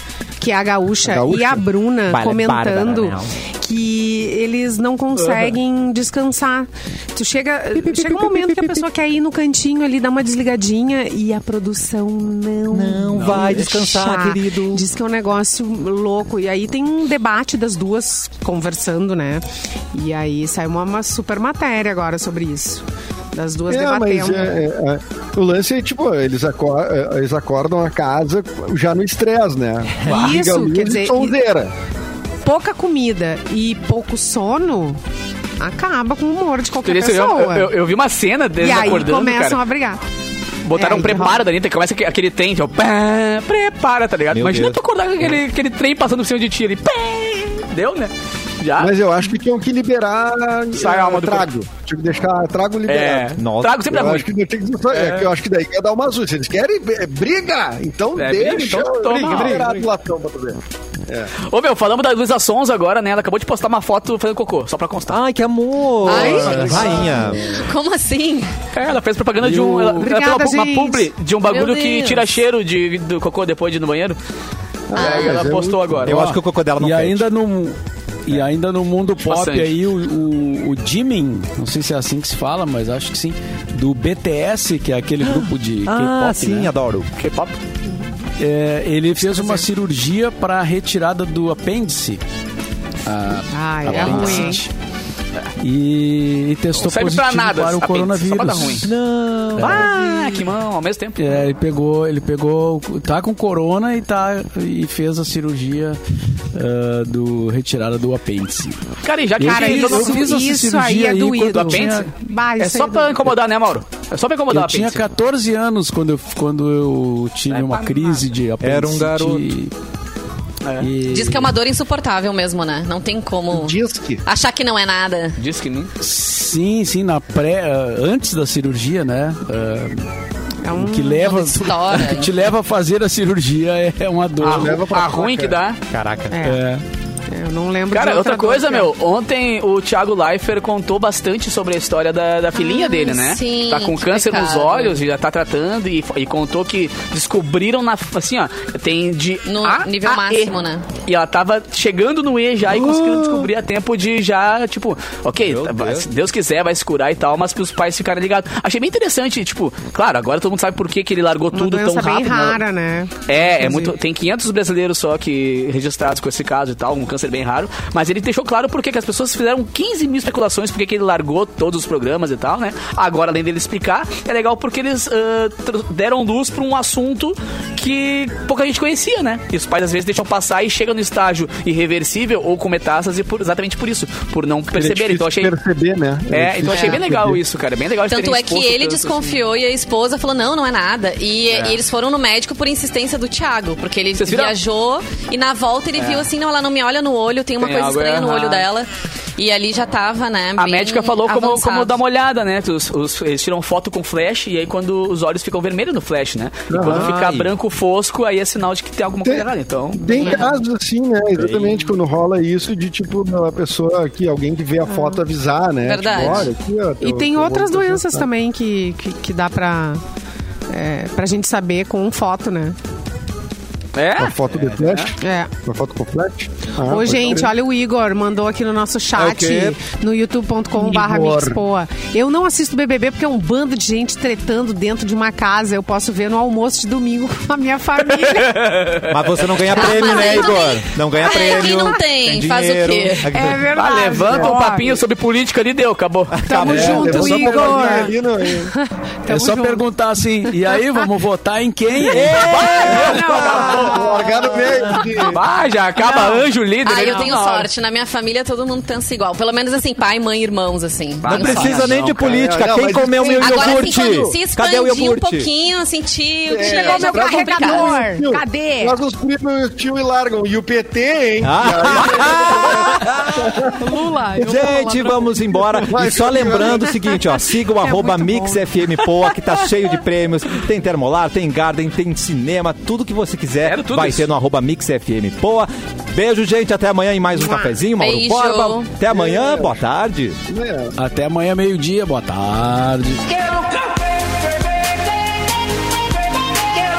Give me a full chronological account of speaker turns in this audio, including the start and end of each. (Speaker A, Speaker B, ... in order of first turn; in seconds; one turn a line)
Speaker A: 0.4-24.6
Speaker B: 1.1-1.6
Speaker C: 2.1-3.3
Speaker D: 5.2-5.5
Speaker C: 7.8-8.8
Speaker C: 12.7-14.9
Speaker E: 13.2-13.7
Speaker B: 23.7-31.7
Speaker A: 30.1-31.4
Speaker A: 32.4-35.0
Speaker A: 35.6-37.8
Speaker D: 36.8-39.6
Speaker A: 38.6-40.0
Speaker D: 40.6-48.9
Speaker A: 40.8-41.4
Speaker C: 44.3-44.8
Speaker B: 48.8-53.3
Speaker D: 50.7-51.5
Speaker D: 52.9-54.3
Speaker C: 53.4-54.1
Speaker B: 53.9-61.3
Speaker D: 54.9-55.3
Speaker D: 58.1-59.8
Speaker D: 61.4-65.2
Speaker C: 65.1-67.5
Speaker F: 66.0-68.5
Speaker B: 66.1-67.5
Speaker D: 68.7-74.2
Speaker E: 69.4-70.0
Speaker A: 70.0-71.1
Speaker F: 71.5-72.2
Speaker B: 74.9-76.1
Speaker D: 74.9-76.2
Speaker F: 75.0-75.4
Speaker C: 76.0-77.3
Speaker E: 76.1-86.7
Speaker D: 79.2-79.7
Speaker C: 85.2-87.1
Speaker D: 87.2-87.6
Speaker E: 88.4-92.2
Speaker A: 89.2-89.7
Speaker E: 93.0-94.7
Speaker A: 93.5-94.6
Speaker C: 93.8-94.6
Speaker E: 95.6-99.0
Speaker D: 96.8-98.9
Speaker C: 98.8-100.0
Speaker E: 99.6-100.0
Speaker D: 99.6-101.4
Speaker E: 101.2-106.0
Speaker E: 106.5-108.8
Speaker D: 109.0-110.3
Speaker E: 109.4-112.1
Speaker A: 109.4-113.3
Speaker D: 111.5-115.0
Speaker E: 114.5-119.8
Speaker D: 117.5-118.1
Speaker C: 118.6-119.5
Speaker D: 120.6-120.9
Speaker E: 120.8-121.6
Speaker F: 121.1-125.4
Speaker B: 123.5-124.2
Speaker D: 125.4-125.9
Speaker E: 126.0-130.1
Speaker A: 130.6-131.7
Speaker E: 130.7-134.8
Speaker F: 131.4-132.3
Speaker D: 134.4-135.8
Speaker B: 134.4-135.6
Speaker C: 135.9-136.4
Speaker A: 136.3-136.7
Speaker E: 136.4-136.8
Speaker A: 137.3-138.9
Speaker D: 137.9-162.6
Speaker F: 142.6-145.0
Speaker F: 149.5-150.9
Speaker C: 153.0-153.3
Speaker C: 155.4-156.1
Speaker A: 161.5-163.9
Speaker D: 163.3-185.5
Speaker B: 184.7-187.4
Speaker D: 186.3-189.4
Speaker F: 186.7-187.0
Speaker F: 188.1-202.0
Speaker D: 191.5-191.8
Speaker D: 194.2-194.6
Speaker D: 196.0-196.3
Speaker D: 197.6-198.7
Speaker D: 200.6-210.5
Speaker B: 206.7-207.4
Speaker C: 206.8-207.4
Speaker B: 209.2-218.3
Speaker F: 210.2-210.4
Speaker C: 211.4-211.9
Speaker A: 214.9-215.2
Speaker F: 215.8-216.5
Speaker A: 217.0-220.0
Speaker A: 220.7-222.8
Speaker D: 223.9-225.1
Speaker B: 224.2-227.5
Speaker A: 225.2-225.5
Speaker A: 226.8-238.7
Speaker C: 229.2-229.8
Speaker B: 230.8-231.6
Speaker D: 238.2-239.8
Speaker C: 239.0-243.6
Speaker F: 239.7-243.3
Speaker A: 243.3-245.0
Speaker D: 243.7-246.4
Speaker B: 244.3-244.6
Speaker C: 246.3-248.1
Speaker A: 246.5-249.9
Speaker B: 246.7-248.7
Speaker E: 246.7-247.1
Speaker E: 249.3-252.4
Speaker A: 250.5-251.0
Speaker C: 252.1-253.9
Speaker A: 252.2-255.3
Speaker D: 252.3-254.2
Speaker B: 253.1-255.4
Speaker D: 255.1-257.7
Speaker A: 256.1-256.4
Speaker F: 256.8-262.1
Speaker C: 261.3-265.5
Speaker D: 261.3-262.4
Speaker B: 261.4-264.4
Speaker F: 263.2-268.0
Speaker B: 266.5-274.6
Speaker A: 266.6-269.0
Speaker C: 271.4-273.7
Speaker A: 273.8-275.7
Speaker C: 274.4-290.4
Speaker B: 275.8-276.8
Speaker A: 276.4-279.0
Speaker D: 283.6-284.3
Speaker A: 287.3-287.8
Speaker F: 288.0-288.9
Speaker B: 289.1-289.8
Speaker B: 290.5-290.9
Speaker E: 291.0-293.6